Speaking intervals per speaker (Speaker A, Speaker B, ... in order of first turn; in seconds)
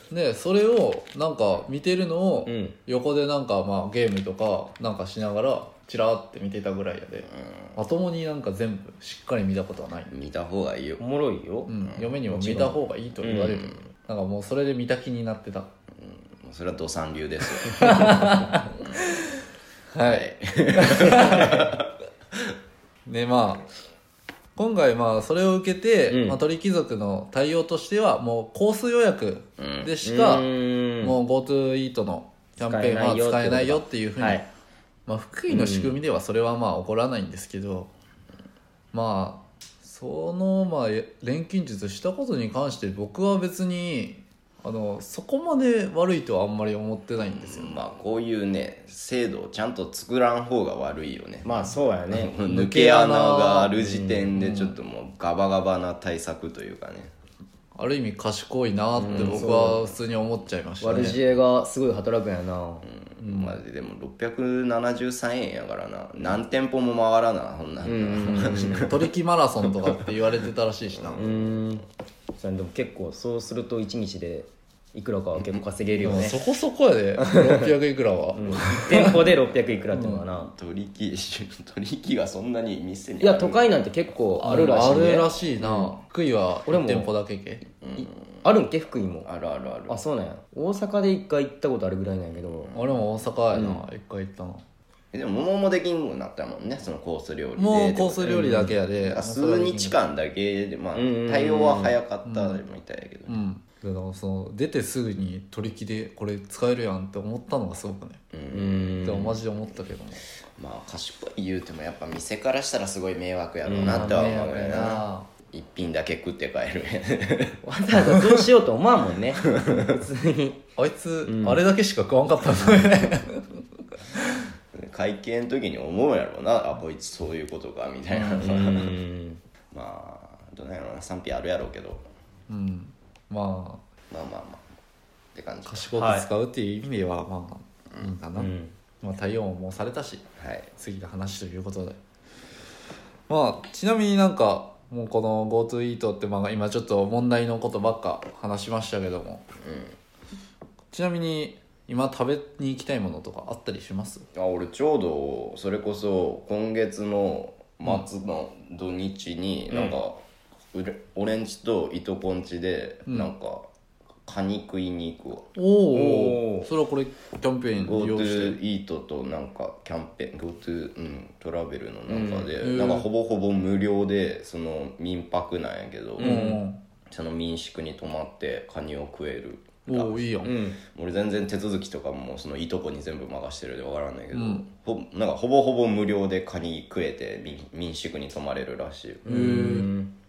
Speaker A: 0.1-10.1, 11.7-15.7, 17.6-19.0, 19.9-21.6, 23.1-23.6, 24.6-30.5, 31.0-34.4, 35.1-37.9, 38.9-47.8, 52.5-53.7, 54.4-54.8, 57.7-61.2, 63.2-63.6, 68.8-71.2, 76.0-79.2, 79.9-80.2, 84.4-87.6, 92.7-94.6, 97.6-100.0, 102.2-102.6, 103.3-108.2, 109.0-110.2, 113.9-115.3, 120.8-123.6, 132.5-133.8, 135.7-142.0, 143.3-149.4, 150.9-154.2, 165.5-168.6, 172.6-173.1, 176.2-176.8, 179.8-180.5, 184.3-184.7, 189.2-189.9
Speaker B: 2.5-2.8, 11.0-11.7, 12.3-13.6, 26.1-26.4, 30.0-31.1, 32.6-34.5, 35.5-36.0, 51.4-52.3, 53.8-54.3, 59.0-59.8, 60.8-62.9, 67.8-68.9, 71.2-71.8, 72.4-76.4, 77.2-77.7, 78.3-80.5, 83.2-85.9, 86.7-87.1, 88.0-89.3, 89.9-92.7, 93.5-93.8, 98.3-98.8, 101.0-102.0, 108.5-109.3, 113.6-114.4, 117.6-120.6, 121.3-121.6, 128.3-129.4, 135.9-136.3, 138.3-138.7, 159.7-160.0, 165.9-166.7, 172.1-172.5, 176.2-176.6, 180.4-180.8, 189.2-190.1
Speaker C: 10.1-11.0, 11.8-12.2, 13.6-13.8, 16.0-19.0, 20.0-21.8, 29.6-29.9, 47.2-57.1, 59.0-59.8, 62.8-69.1, 70.9-71.4, 80.3-83.7, 84.6-85.1, 87.8-88.4, 89.2-90.0, 92.6-93.0, 95.1-103.4, 108.3-109.4, 110.6-117.6, 124.7-128.9, 129.7-132.0, 134.1-134.6, 135.3-135.9, 140.4-140.7, 149.6-149.9, 154.3-160.2, 160.7-163.7, 164.2-165.6, 167.8-176.6, 177.1-180.2, 180.8-189.3